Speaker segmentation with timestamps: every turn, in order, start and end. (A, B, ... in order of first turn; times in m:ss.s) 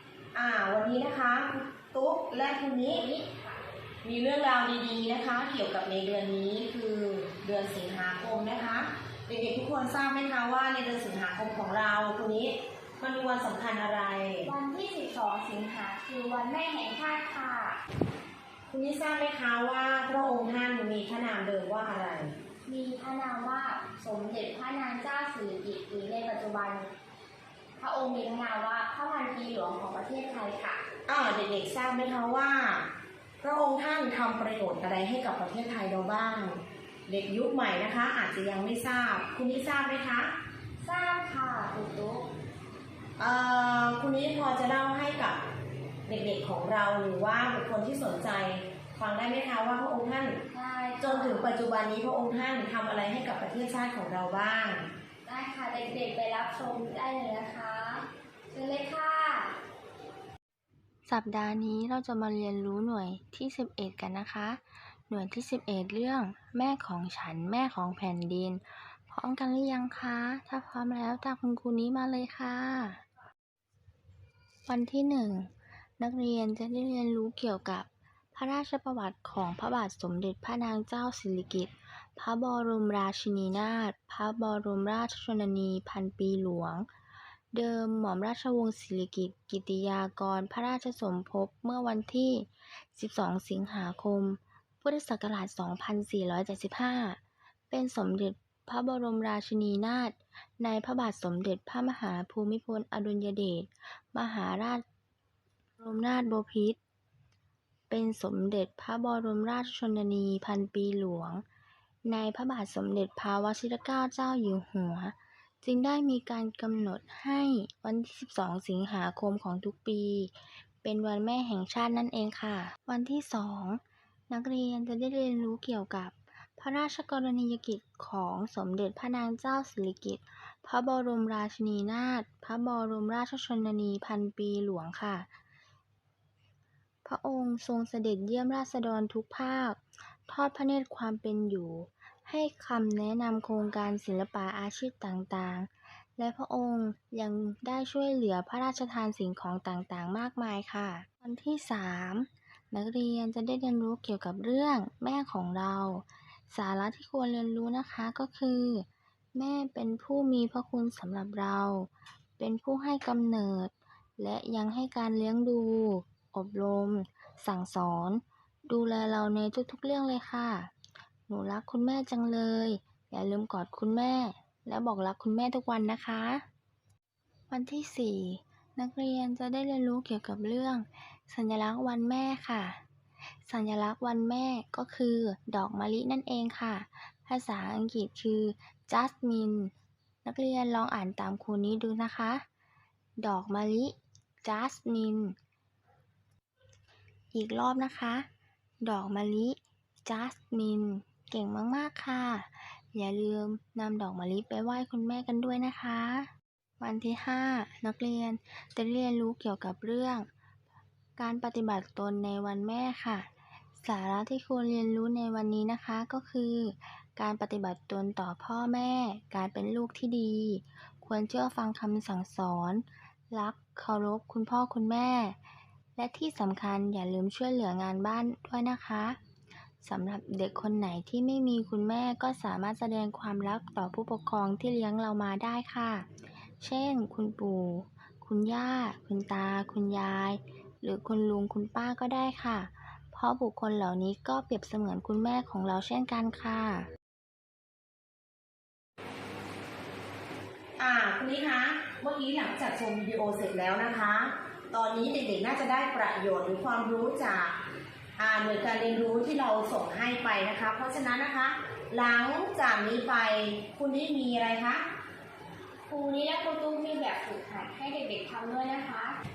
0:00.3-0:03.0 A
0:02.8-0:03.6 B
0:04.0-0:14.5 A
0:14.4-0:17.8 B
0:18.7-0:22.4 A
0:22.7-0:26.9 B
0:27.8-0:30.8 B
0:31.1-0:32.9 A
0:33.4-0:40.3 A
0:40.8-0:42.3 B
0:43.2-0:45.4 A
0:46.1-0:50.4 A
0:50.5-0:51.5 B
0:51.0-0:54.9 A
0:55.3-0:59.6 B
1:01.1-1:13.0 C
1:14.7-1:26.9 C
1:27.5-1:37.2 C
1:37.7-1:44.8 C
1:45.8-1:46.8 C
1:47.9-1:51.4 C
1:52.0-2:15.3 C
2:17.0-2:50.7 C
2:51.3-2:56.4 C
2:57.5-3:02.8 C
3:03.4-3:09.7 C
3:10.2-3:12.4 C
3:13.2-3:15.4 C
3:17.3-3:18.2 C
3:18.8-3:30.3 C
3:31.2-3:33.3 C
3:33.8-3:45.4 C
3:46.0-3:49.2 C
3:49.8-3:56.1 C
3:56.6-4:06.9 C
4:10.8-4:17.6 A
4:18.2-4:24.8 A
4:25.9-4:29.2 B